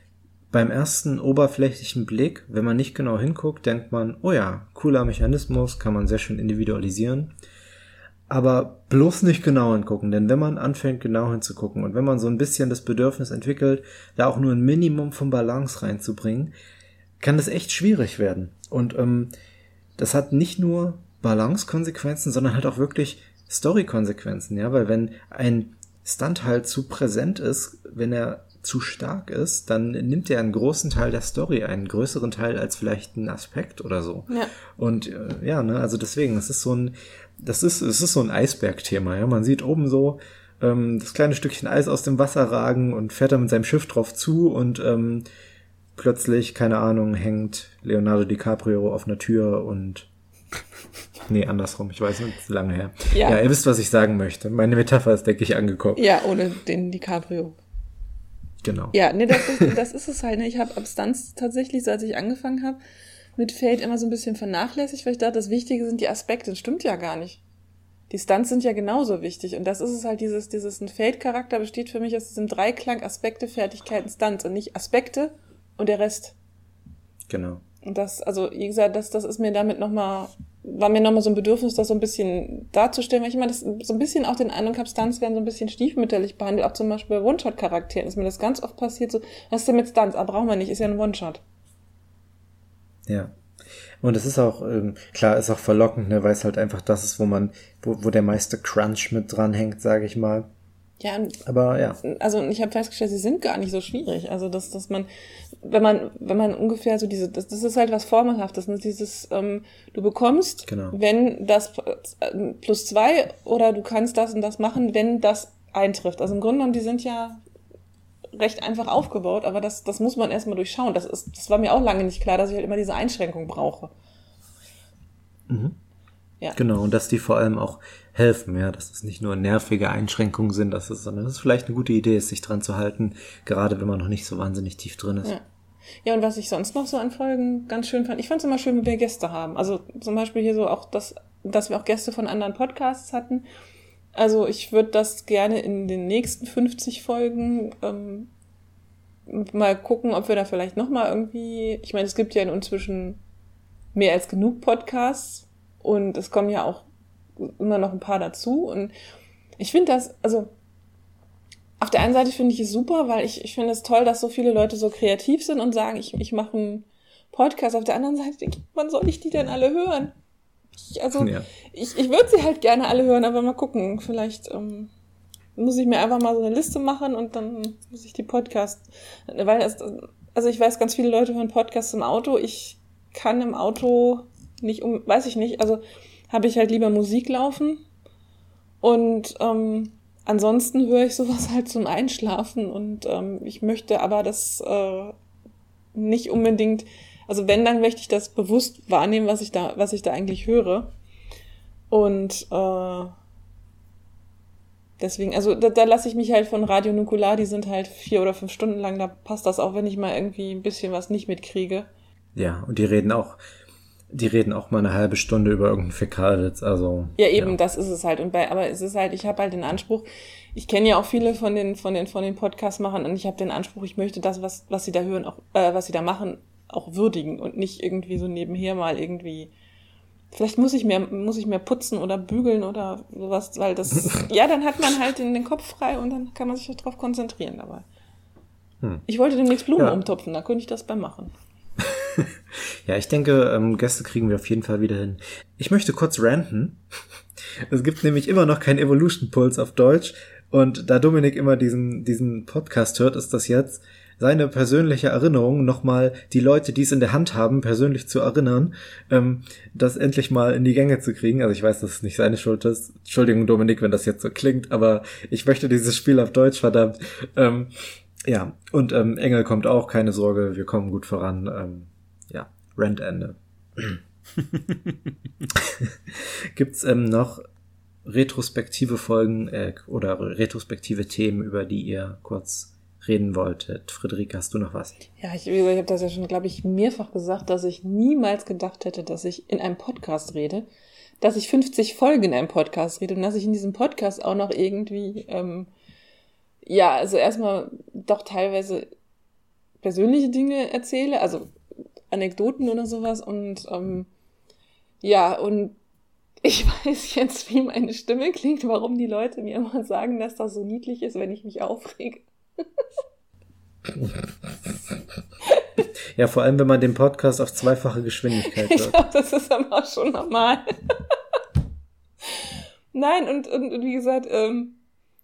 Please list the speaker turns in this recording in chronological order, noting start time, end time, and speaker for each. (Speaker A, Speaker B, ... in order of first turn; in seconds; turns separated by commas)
Speaker A: 0.5-7.3, Speaker A: 8.3-16.5, Speaker A: 17.2-19.3, Speaker A: 20.0-45.3, Speaker A: 46.0-50.1, Speaker A: 51.3-56.0, Speaker B: 53.1-53.4, Speaker B: 56.0-57.6, Speaker A: 58.6-59.4, Speaker B: 58.9-62.8, Speaker B: 63.4-67.4, Speaker B: 68.1-76.3, Speaker A: 77.3-77.6, Speaker B: 77.8-91.4, Speaker A: 93.1-93.3, Speaker A: 94.0-100.5, Speaker B: 101.0-101.4, Speaker A: 101.5-102.0, Speaker B: 102.0-105.1, Speaker B: 105.6-117.4, Speaker A: 110.7-111.0, Speaker B: 118.3-123.9, Speaker A: 125.5-125.8, Speaker A: 126.5-135.3, Speaker B: 136.0-143.4, Speaker B: 144.2-148.3, Speaker B: 149.3-153.2, Speaker B: 153.9-156.9, Speaker B: 157.4-158.9, Speaker B: 159.6-160.5, Speaker B: 161.8-170.1, Speaker B: 170.8-174.9, Speaker A: 171.2-171.5, Speaker B: 175.6-187.8, Speaker B: 188.8-195.2, Speaker B: 195.9-200.9, Speaker B: 201.9-203.1, Speaker B: 205.0-211.9, Speaker A: 212.3-213.4, Speaker A: 214.1-217.6, Speaker B: 217.2-229.5, Speaker B: 230.3-237.9, Speaker B: 239.1-241.3, Speaker A: 241.8-246.8, Speaker A: 247.4-274.0, Speaker A: 275.5-277.4, Speaker A: 278.1-285.0, Speaker B: 285.2-290.7, Speaker B: 291.2-295.7, Speaker B: 296.6-298.9, Speaker B: 299.8-301.5, Speaker B: 302.1-304.1, Speaker B: 305.0-305.8, Speaker B: 306.4-312.3, Speaker A: 313.9-314.9, Speaker A: 316.1-319.0, Speaker B: 318.4-320.6, Speaker B: 322.3-324.8